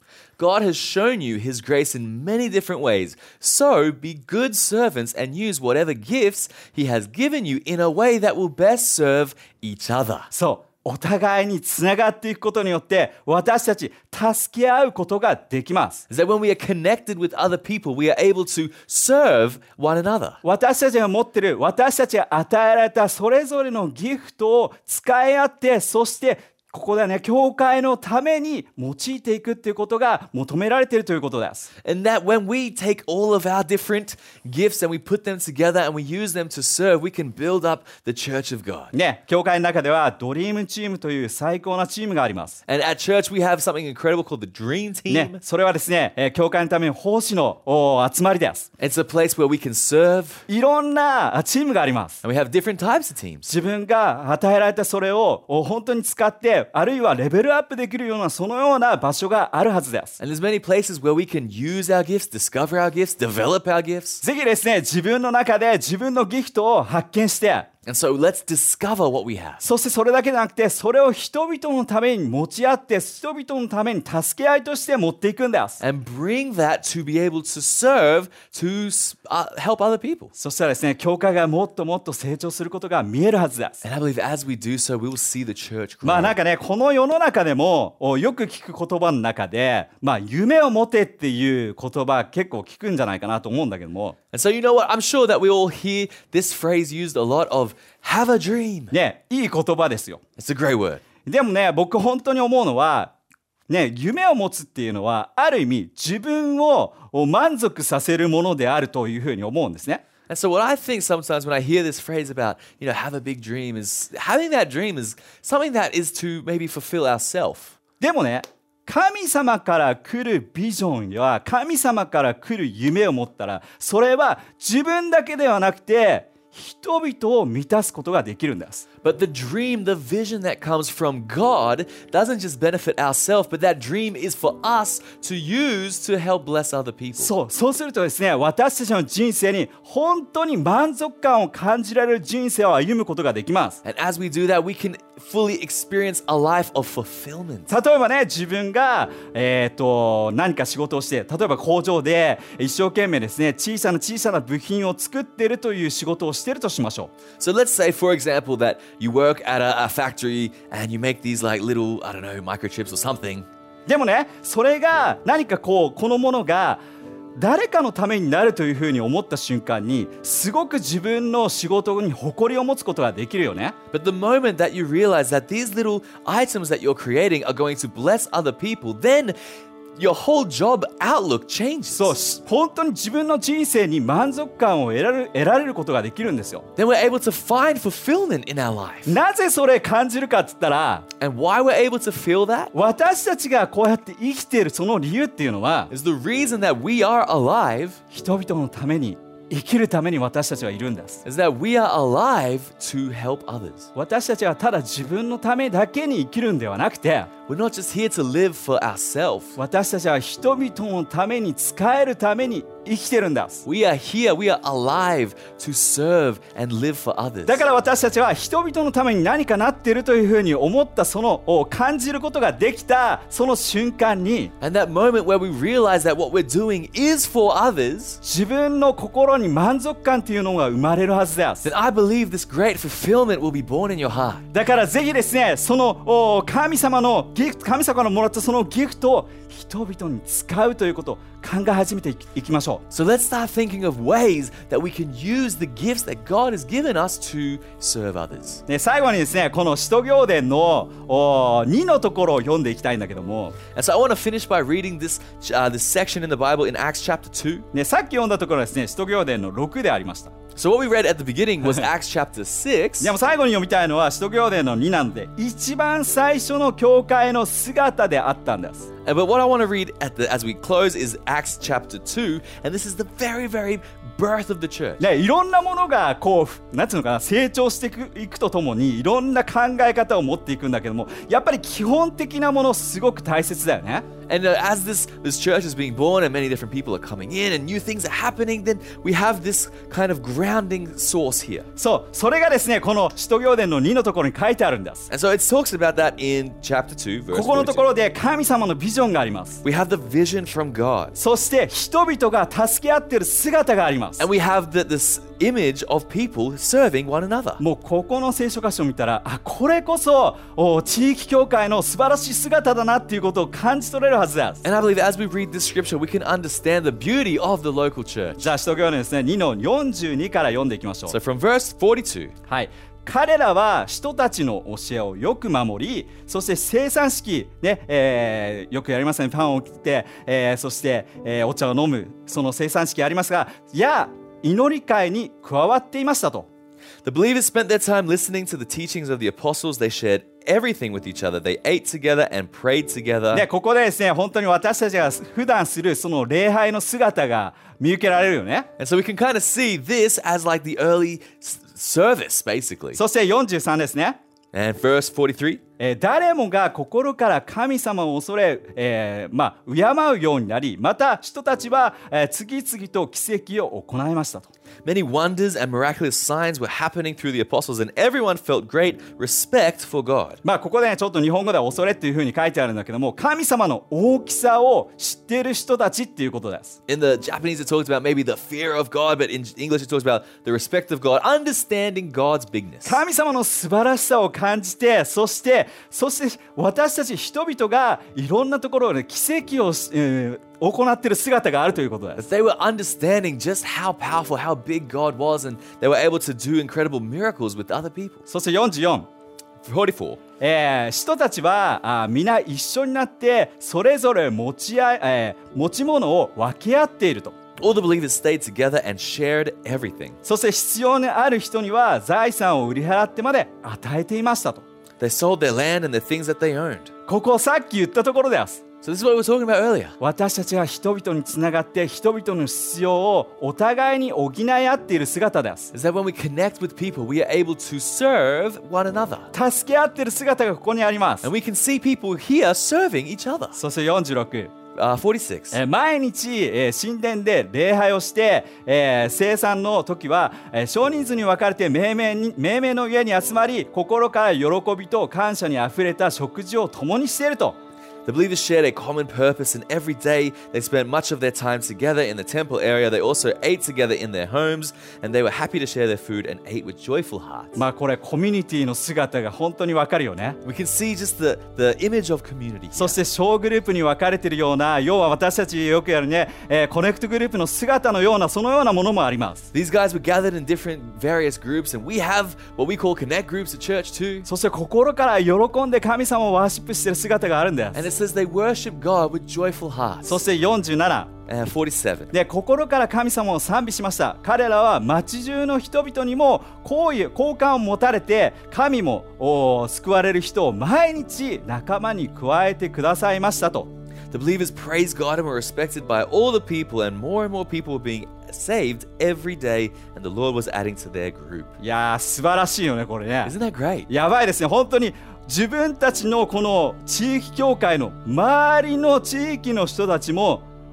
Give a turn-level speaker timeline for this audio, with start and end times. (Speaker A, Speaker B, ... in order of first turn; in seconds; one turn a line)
Speaker A: 0.4-10.3
Speaker B: 10.3-16.0
Speaker A: 16.1-20.4
Speaker B: 20.4-31.7
Speaker A: 31.8-38.9
Speaker B: 38.9-42.6
Speaker A: 42.7-45.4
Speaker B: 45.1-48.7
Speaker A: 48.8-50.4
Speaker B: 50.5-52.2
Speaker A: 52.2-53.5
Speaker B: 53.5-60.2
Speaker A: 60.2-64.2
Speaker B: 64.2-67.7
Speaker A: 67.8-69.6
Speaker B: 69.6-75.8
Speaker A: 75.8-80.3
Speaker B: 80.3-83.8
Speaker A: 83.8-86.4
Speaker B: 86.0-94.2
Speaker A: 94.3-98.9
Speaker B: 98.9-100.2
Speaker A: 100.4-101.0
Speaker B: 101.2-103.1
Speaker B: 103.7-110.0
Speaker A: 110.3-117.8
Speaker B: 118.0-128.8
Speaker A: 129.0-137.3
Speaker B: 137.2-143.8
Speaker A: 143.8-147.8
Speaker B: 147.7-157.1
Speaker A: 157.4-163.5
Speaker B: 163.9-166.8
Speaker B: 167.3-173.7
Speaker A: 173.9-179.3
Speaker A: 179.9-182.1
Speaker B: 181.9-186.7
Speaker A: 186.8-189.2
Speaker B: 189.1-191.1
Speaker A: 191.2-192.7
Speaker B: 192.7-195.9
Speaker A: 195.9-198.0
Speaker B: 198.1-201.2
Speaker A: 201.2-203.9
Speaker B: 203.9-207.3
Speaker A: 207.5-209.6
Speaker B: 209.6-213.6
Speaker A: 213.6-217.6
Speaker B: 217.4-224.5
Speaker A: 224.6-228.2
Speaker B: 228.2-231.7
Speaker A: 231.6-234.4
Speaker B: 234.5-242.8
Speaker A: 242.9-248.6
Speaker B: 248.7-253.6
Speaker A: 253.7-257.6
Speaker B: 257.7-260.3
Speaker A: 260.5-263.1
Speaker B: 263.0-268.9
Speaker A: 269.0-275.1
Speaker B: 275.0-284.1
Speaker A: 284.3-291.7
Speaker B: 291.8-295.1
Speaker A: 295.1-297.9
Speaker B: 297.3-299.6
Speaker A: 299.6-301.1
Speaker B: 301.2-304.2
Speaker A: 304.2-307.6
Speaker B: 307.6-314.6
Speaker A: 314.6-318.5
Speaker B: 318.4-321.1
Speaker A: 321.1-322.3
Speaker B: 322.5-336.5
Speaker A: 337.0-343.5
Speaker B: 343.3-348.7
Speaker A: 348.8-353.0
Speaker B: 352.9-354.2
Speaker A: 354.5-355.6
Speaker B: 355.8-364.5
Speaker A: 364.8-370.4
Speaker B: 370.4-376.8
Speaker A: 376.9-383.0
Speaker B: 382.8-392.2
Speaker A: 392.2-398.2
Speaker B: 398.3-399.1
Speaker A: 399.6-400.2
Speaker B: 400.4-407.3
Speaker A: 407.6-410.2
Speaker B: 410.2-414.6
Speaker A: 415.0-416.9
Speaker B: 417.1-418.6
Speaker A: 418.8-420.0
Speaker B: 420.0-425.7
Speaker A: 425.7-429.3
Speaker B: 429.3-431.3
Speaker A: 431.2-433.6
Speaker B: 433.6-434.5
Speaker A: 434.7-435.6
Speaker B: 435.5-447.6
Speaker A: 448.0-457.6
Speaker B: 457.6-460.4
Speaker A: 460.4-463.0
Speaker B: 462.7-469.5
Speaker A: 469.5-474.3
Speaker B: 474.2-477.9
Speaker A: 477.7-480.2
Speaker B: 480.1-481.1
Speaker A: 481.3-482.1
Speaker B: 482.1-493.7
Speaker A: 494.1-501.5
Speaker B: 501.6-503.3
Speaker A: 503.2-503.9
Speaker B: 503.9-510.4